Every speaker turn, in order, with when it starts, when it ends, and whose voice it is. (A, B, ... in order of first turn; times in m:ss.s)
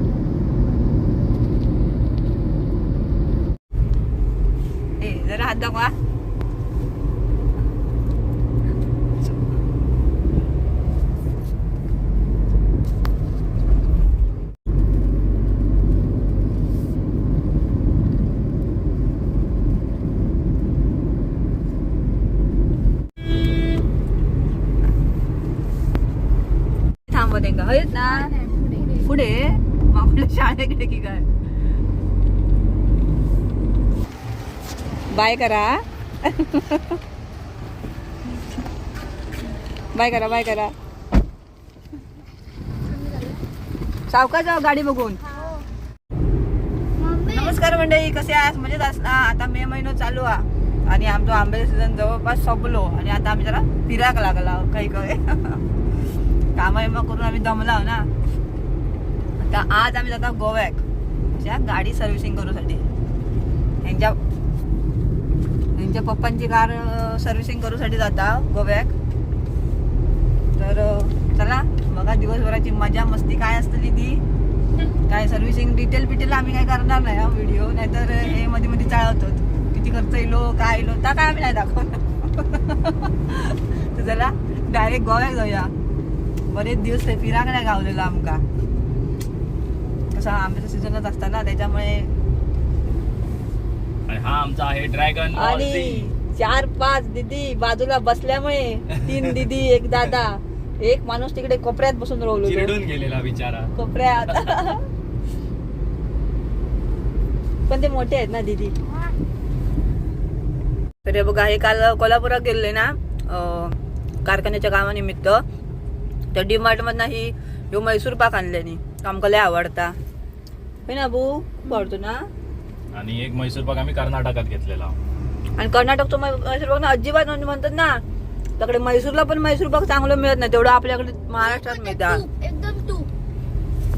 0:05.0-0:06.0 A
0:27.1-0:28.3 A
0:28.1-0:29.1 B
0:29.0-0:31.3 A
0:35.1-0:37.0 A
0:40.0-0:40.7 A
0:42.8-0:43.4 B
0:44.1-0:45.2 A
0:45.2-0:45.7 B
0:47.0-0:47.6 B
0:47.3-0:55.6 A
0:56.6-0:58.1 A
0:59.4-1:02.8 A
1:03.8-1:04.2 A
1:05.8-1:08.9 A
1:10.6-1:14.2 A
1:15.1-1:25.7 A
1:26.5-1:28.4 A
1:30.1-1:32.1 A
1:34.1-1:36.1 C
1:35.3-1:42.8 A
1:38.9-1:39.4 C
1:42.4-1:43.7 C
1:43.8-1:44.8 A
1:44.2-1:44.7 C
1:47.7-1:48.8 A
1:51.0-1:55.4 A
1:56.3-2:00.0 A
2:00.9-2:02.2 A
2:02.9-2:05.0 C
2:05.6-2:08.0 A
2:08.6-2:12.2 A
2:11.4-2:13.1 B